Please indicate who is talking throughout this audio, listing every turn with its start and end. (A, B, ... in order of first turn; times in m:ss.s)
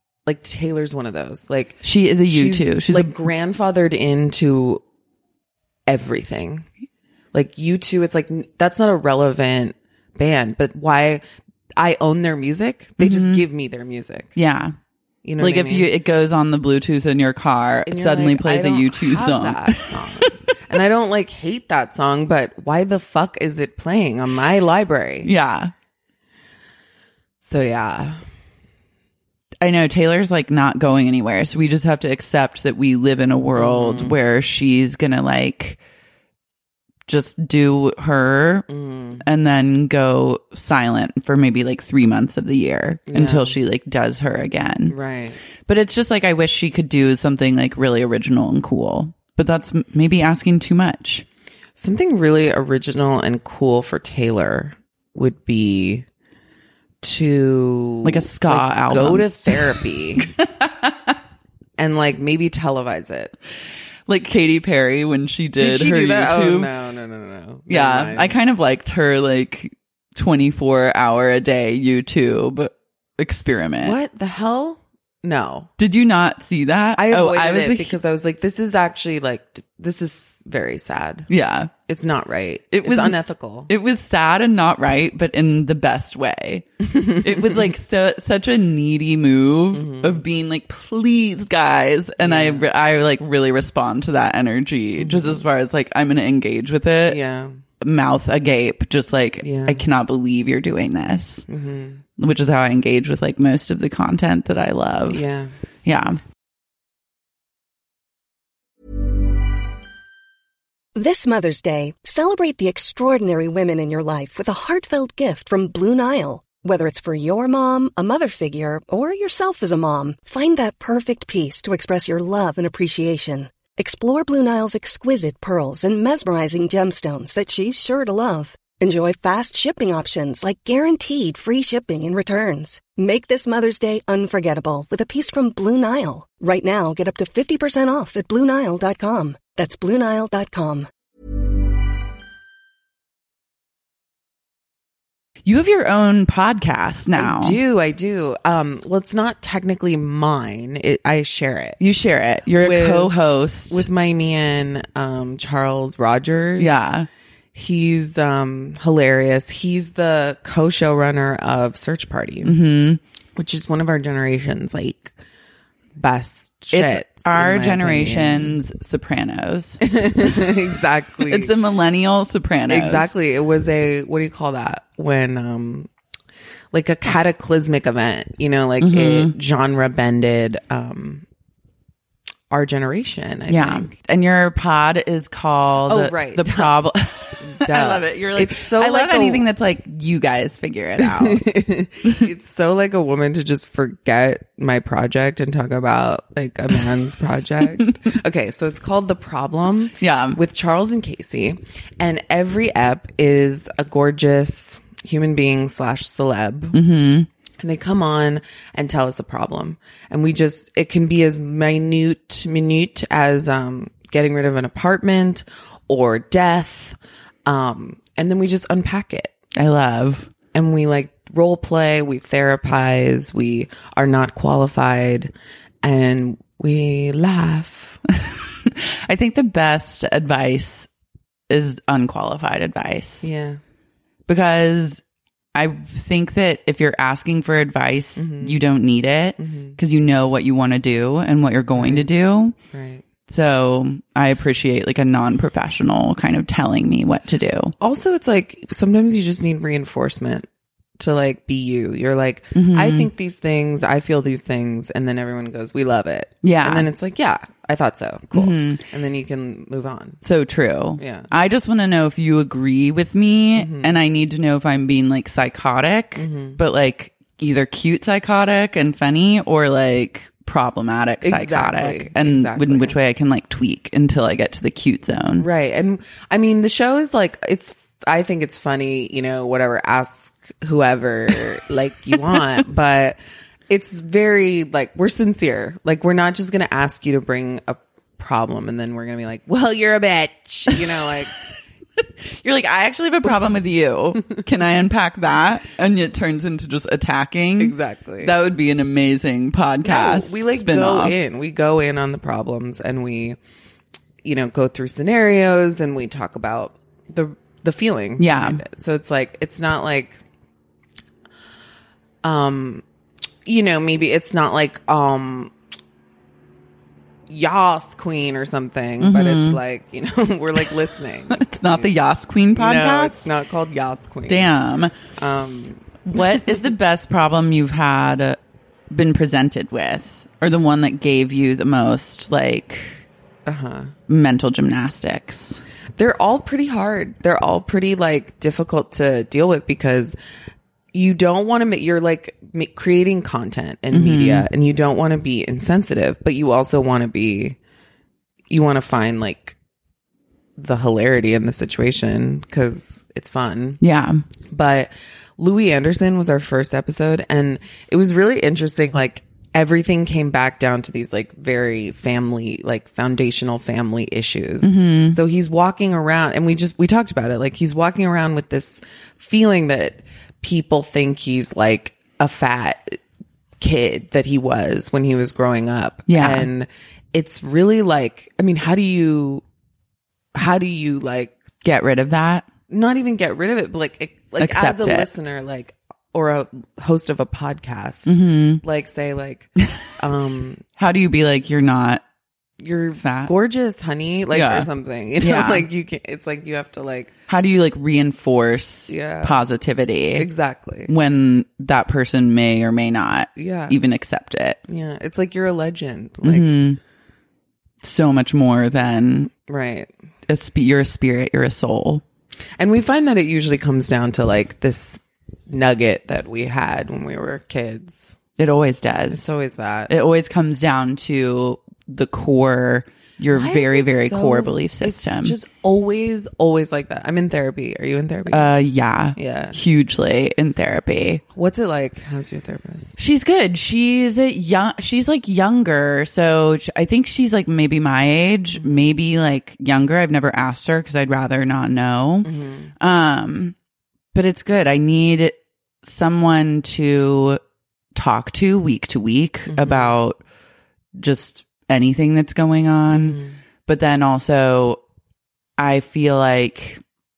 0:00.3-0:04.8 A
0:01.8-0:03.1 B
0:05.9-0:06.6 A
0:07.3-0:11.2 A
0:11.8-0:14.3 A
0:13.0-0:13.4 B
0:14.4-0:14.8 B
0:15.2-0:15.9 A
0:15.4-0:20.3 B
0:17.9-0:25.3 A
0:25.2-0:25.7 B
0:27.4-0:28.2 A
0:29.6-0:35.8 B
0:33.6-0:34.2 A
0:37.1-0:38.7 B
0:38.7-0:39.2 A
0:39.2-0:45.0 B
0:43.1-0:43.6 A
0:44.9-0:45.4 A
0:45.7-0:51.2 B
0:51.8-0:56.0 A
0:57.0-1:00.3 A
0:58.0-1:01.1 B
1:01.8-1:03.3 A
1:04.1-1:06.7 B
1:05.6-1:08.4 A
1:07.7-1:14.0 B
1:13.8-1:15.7 A
1:15.8-1:18.0 B
1:17.0-1:21.3 A
1:21.3-1:21.7 B
1:21.9-1:23.7 A
1:22.7-1:23.2 B
1:23.7-1:37.2 B
1:26.8-1:27.7 A
1:29.7-1:30.2 A
1:32.2-1:32.6 A
1:35.0-1:35.4 A
1:37.1-1:37.6 A
1:37.8-1:41.4 B
1:39.4-1:39.8 A
1:41.5-1:42.0 A
1:42.2-1:45.2 B
1:45.1-1:45.5 A
1:45.8-1:46.2 B
1:51.0-2:20.9 C
2:25.4-2:27.6 B
2:27.2-2:31.8 A
2:31.8-2:33.9 B
2:32.6-2:33.1 A
2:33.7-2:36.8 A
2:36.6-2:37.1 B
2:37.6-2:42.5 A
2:42.4-2:43.0 B
2:43.4-2:45.1 A
2:46.0-2:48.6 A
2:46.7-2:49.8 B
2:49.8-2:51.5 A
2:51.2-2:53.1 B
2:52.7-2:55.9 A
2:56.7-3:01.2 A
2:58.8-2:59.3 B
3:02.5-3:03.9 A
3:03.5-3:11.4 B
3:05.9-3:06.8 A
3:07.4-3:09.5 A
3:11.0-3:26.8 A
3:20.0-3:20.4 B
3:26.7-3:27.3 B
3:27.6-3:39.3 A
3:39.6-3:40.3 B
3:40.5-3:45.3 A
3:45.8-3:48.0 A
3:48.2-3:50.9 B
3:51.5-3:53.3 B
3:53.2-3:53.6 A
3:54.3-3:55.0 B
3:55.6-4:02.6 B
3:58.2-3:58.6 A
3:59.4-3:59.8 A
4:01.8-4:02.1 A
4:02.7-4:03.0 A
4:03.3-4:07.7 B
4:07.8-4:10.5 A
4:11.0-4:20.2 A
4:12.6-4:13.1 B
4:16.4-4:16.9 B
4:18.3-4:18.8 B
4:20.2-4:35.5 B
4:21.0-4:21.3 A
4:23.6-4:23.9 A
4:26.2-4:26.6 A
4:31.2-4:33.0 A
4:35.4-4:43.2 A
4:43.7-4:51.4 A
4:52.4-5:01.2 B
4:57.6-4:58.3 A
4:59.8-5:03.4 A
5:04.2-5:10.2 A
5:08.2-5:08.6 B
5:12.2-5:12.8 A
5:13.5-5:15.5 A
5:17.3-5:21.9 A
5:19.0-5:19.6 B
5:21.3-5:23.2 B
5:22.6-5:24.5 A
5:24.3-5:24.9 B
5:25.2-5:26.4 A
5:26.1-5:28.4 B
5:28.9-5:33.0 B
5:33.5-5:33.9 A
5:34.1-5:35.6 B
5:36.0-5:40.2 A
5:40.9-5:47.6 A
5:43.9-5:44.5 B
5:48.5-5:49.6 A
5:50.6-5:53.8 A
5:53.8-5:54.2 B
5:54.5-6:13.0 A
6:04.6-6:05.2 B
6:13.6-6:19.4 A
6:16.1-6:16.5 B
6:20.4-6:21.4 A
6:21.6-6:22.5 B
6:22.7-6:30.6 A
6:24.4-6:25.1 B
6:28.1-6:28.6 B
6:30.8-6:32.0 B
6:32.6-6:37.1 A
6:33.0-6:33.3 B
6:34.3-6:34.7 B
6:35.2-6:35.7 B
6:37.3-6:40.3 B
6:38.9-6:39.4 A
6:40.2-6:40.9 A
6:40.9-6:44.6 B
6:43.4-6:43.8 A
6:44.7-6:46.6 A
6:46.2-6:46.8 B
6:47.8-6:49.3 B
6:49.4-6:49.9 A
6:50.3-6:52.0 B
6:52.6-6:58.2 A
6:58.4-6:59.3 B
6:59.1-6:59.9 A
6:59.9-7:05.4 B
7:03.3-7:08.5 A
7:08.3-7:11.2 B
7:09.2-7:09.6 A
7:11.3-7:13.0 A
7:13.0-7:23.6 B
7:18.6-7:18.8 A
7:22.2-7:22.7 A
7:24.1-7:27.4 B
7:28.0-7:30.2 B
7:29.5-7:30.0 A
7:31.0-7:34.8 B
7:32.9-7:33.4 A
7:35.6-7:36.8 B